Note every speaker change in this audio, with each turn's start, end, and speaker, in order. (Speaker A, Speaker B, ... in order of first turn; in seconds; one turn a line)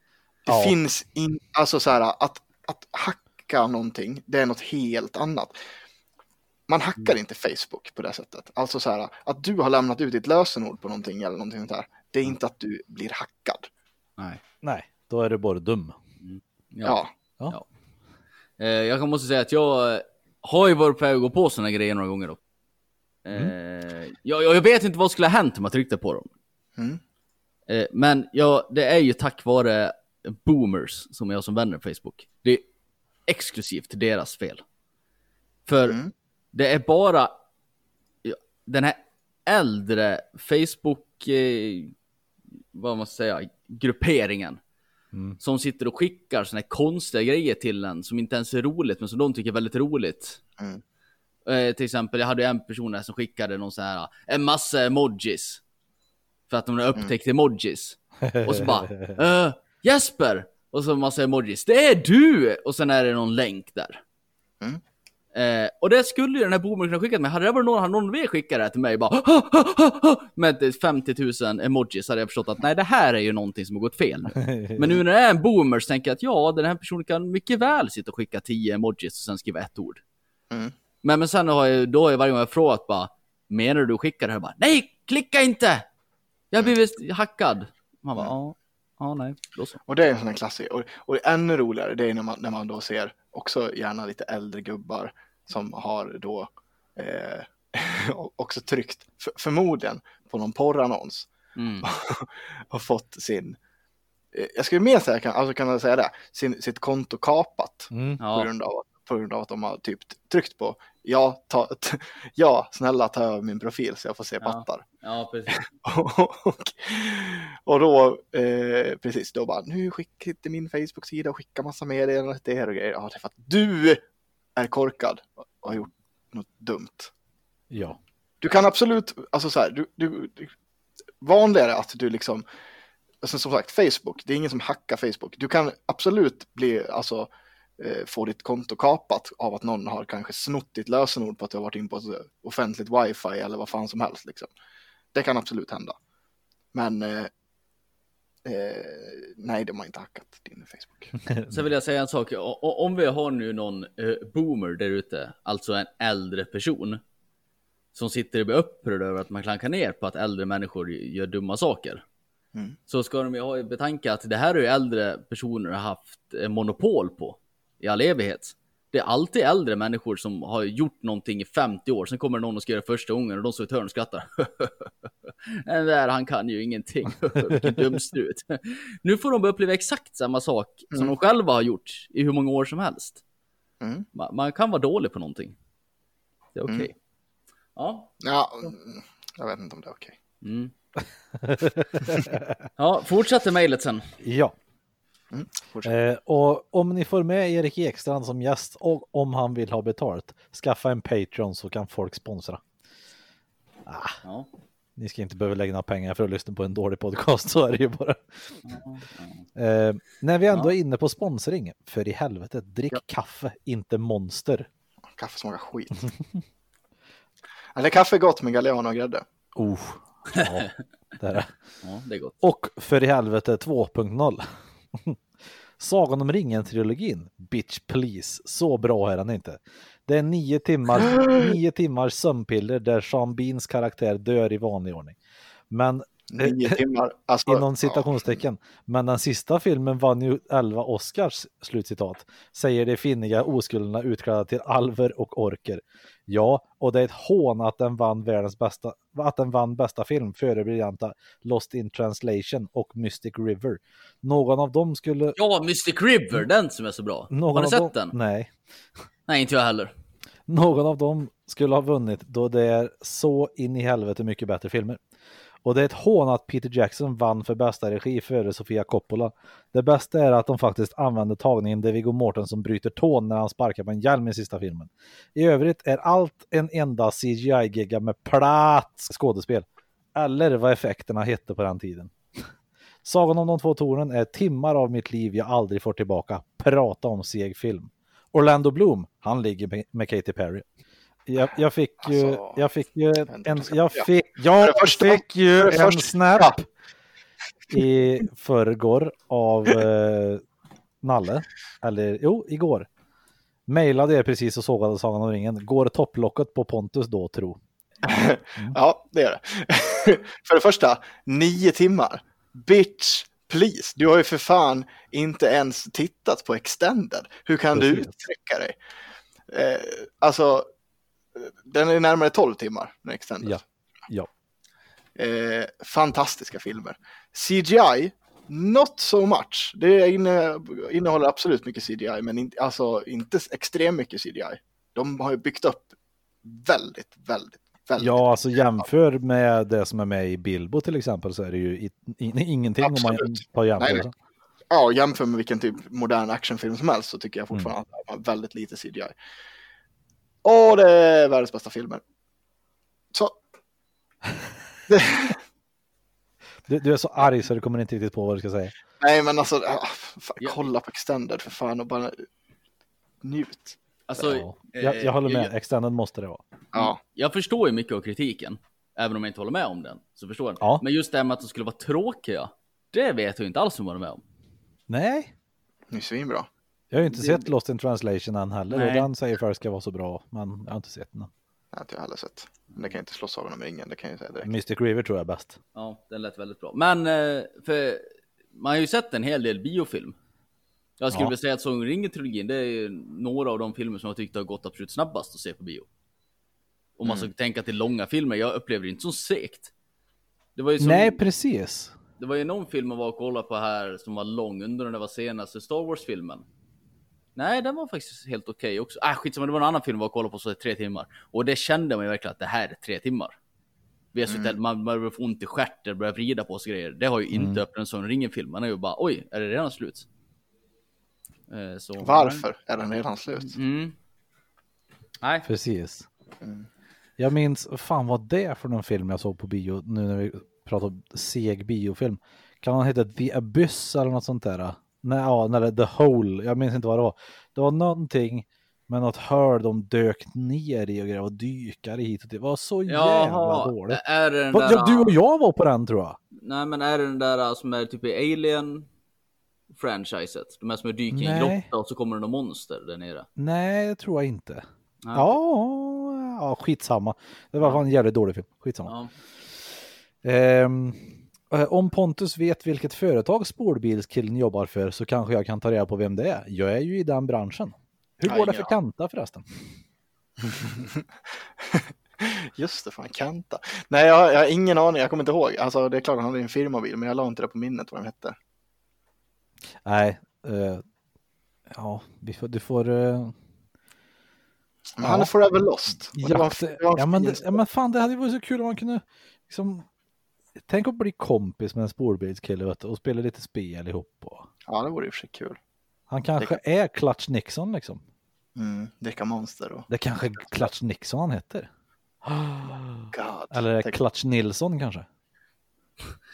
Speaker A: 0.5-5.5
Speaker B: 0.5-0.8
Speaker A: 6.7-13.7
Speaker B: 14.6-15.9
Speaker C: 16.2-17.0
Speaker A: 16.8-17.1
Speaker C: 18.6-22.4
Speaker C: 23.2-26.3
Speaker C: 27.7-32.6
Speaker C: 33.3-34.6
Speaker C: 35.7-36.0
Speaker A: 35.9-36.1
Speaker C: 36.5-37.3
Speaker C: 38.2-41.9
Speaker C: 42.7-44.6
Speaker B: 45.1-45.4
Speaker C: 45.4-50.4
Speaker C: 51.5-55.6
Speaker C: 56.5-64.0
Speaker B: 58.2-59.2
Speaker C: 65.3-80.0
Speaker B: 74.4-74.8
Speaker C: 81.0-85.9
Speaker C: 86.5-89.8
Speaker A: 89.9-101.3
Speaker C: 101.6-101.9
Speaker A: 101.8-103.6
Speaker A: 104.3-114.8
Speaker B: 107.9-108.2
Speaker C: 108.2-108.5
Speaker C: 114.4-115.6
Speaker A: 115.5-124.0
Speaker A: 124.6-127.1
Speaker B: 127.7-128.0
Speaker A: 128.4-130.5
Speaker A: 131.2-132.4
Speaker A: 133.2-144.5
Speaker A: 145.1-145.9
Speaker A: 146.7-147.3
Speaker A: 148.4-151.1
Speaker B: 151.2-151.5
Speaker C: 151.5-157.0
Speaker C: 157.9-162.0
Speaker C: 162.9-183.2
Speaker A: 183.8-184.1
Speaker C: 184.2-185.6
Speaker C: 186.6-186.9
Speaker C: 187.8-188.1
Speaker A: 188.2-190.2
Speaker C: 190.4-190.7
Speaker B: 191.4-192.6
Speaker C: 192.8-194.1
Speaker B: 194.2-194.6
Speaker A: 195.3-195.9
Speaker B: 195.8-202.6
Speaker B: 203.9-204.2
Speaker B: 205.0-208.2
Speaker C: 208.7-209.4
Speaker B: 209.6-214.7
Speaker A: 215.2-216.0
Speaker A: 217.8-219.2
Speaker B: 219.6-221.5
Speaker C: 221.8-222.4
Speaker B: 222.4-224.5
Speaker B: 225.8-235.2
Speaker A: 231.0-231.5
Speaker B: 235.7-236.8
Speaker A: 236.3-238.4
Speaker B: 237.5-255.4
Speaker C: 255.4-258.1
Speaker B: 257.3-258.5
Speaker C: 259.3-259.9
Speaker B: 260.5-265.0
Speaker B: 265.6-282.1
Speaker B: 283.0-290.6
Speaker B: 291.3-296.7
Speaker A: 292.0-292.6
Speaker A: 293.3-294.1
Speaker A: 294.6-296.6
Speaker B: 297.7-300.4
Speaker B: 301.0-302.9
Speaker B: 303.7-307.6
Speaker A: 308.0-318.8
Speaker B: 317.7-318.1
Speaker A: 319.5-320.7
Speaker A: 321.4-323.6
Speaker B: 323.4-324.3
Speaker A: 325.2-335.9
Speaker A: 336.4-338.2
Speaker B: 338.0-344.1
Speaker A: 342.8-344.1
Speaker A: 344.7-349.1
Speaker A: 350.4-352.0
Speaker A: 353.1-353.4
Speaker A: 354.9-355.4
Speaker B: 356.7-358.7
Speaker A: 359.0-362.2
Speaker A: 363.2-364.2
Speaker C: 364.1-365.5
Speaker B: 364.2-366.4
Speaker A: 366.7-367.0
Speaker C: 366.8-374.2
Speaker B: 374.9-375.3
Speaker A: 375.9-376.5
Speaker B: 376.9-381.3
Speaker C: 377.1-377.5
Speaker C: 378.7-379.1
Speaker A: 381.7-384.5
Speaker B: 384.4-385.6
Speaker C: 385.8-390.1
Speaker C: 391.0-395.9
Speaker C: 397.0-399.7
Speaker A: 397.1-397.3
Speaker C: 400.6-401.2
Speaker B: 400.8-401.9
Speaker C: 402.2-406.4
Speaker C: 407.4-413.4
Speaker C: 414.1-420.1
Speaker A: 414.3-414.6
Speaker B: 417.3-417.6
Speaker C: 421.5-422.4
Speaker A: 422.0-423.6
Speaker C: 423.4-423.9
Speaker C: 425.2-425.5
Speaker B: 425.5-426.1
Speaker A: 426.4-426.7
Speaker B: 427.2-444.0
Speaker C: 442.9-445.1
Speaker B: 444.5-446.2
Speaker C: 446.4-448.9
Speaker C: 449.7-453.3
Speaker B: 451.1-451.7
Speaker B: 453.4-458.9
Speaker C: 455.0-455.4
Speaker C: 458.9-459.1
Speaker B: 460.2-469.5
Speaker A: 468.3-468.7
Speaker A: 470.5-471.1
Speaker A: 471.6-478.4
Speaker B: 479.9-480.8
Speaker B: 481.7-483.3
Speaker A: 485.0-487.6
Speaker B: 485.0-485.3
Speaker B: 486.1-489.9
Speaker B: 490.7-494.5
Speaker A: 494.7-495.6
Speaker B: 496.1-498.0
Speaker A: 498.6-499.9
Speaker B: 499.9-501.7
Speaker A: 500.4-500.7
Speaker B: 502.2-505.1
Speaker A: 503.1-504.0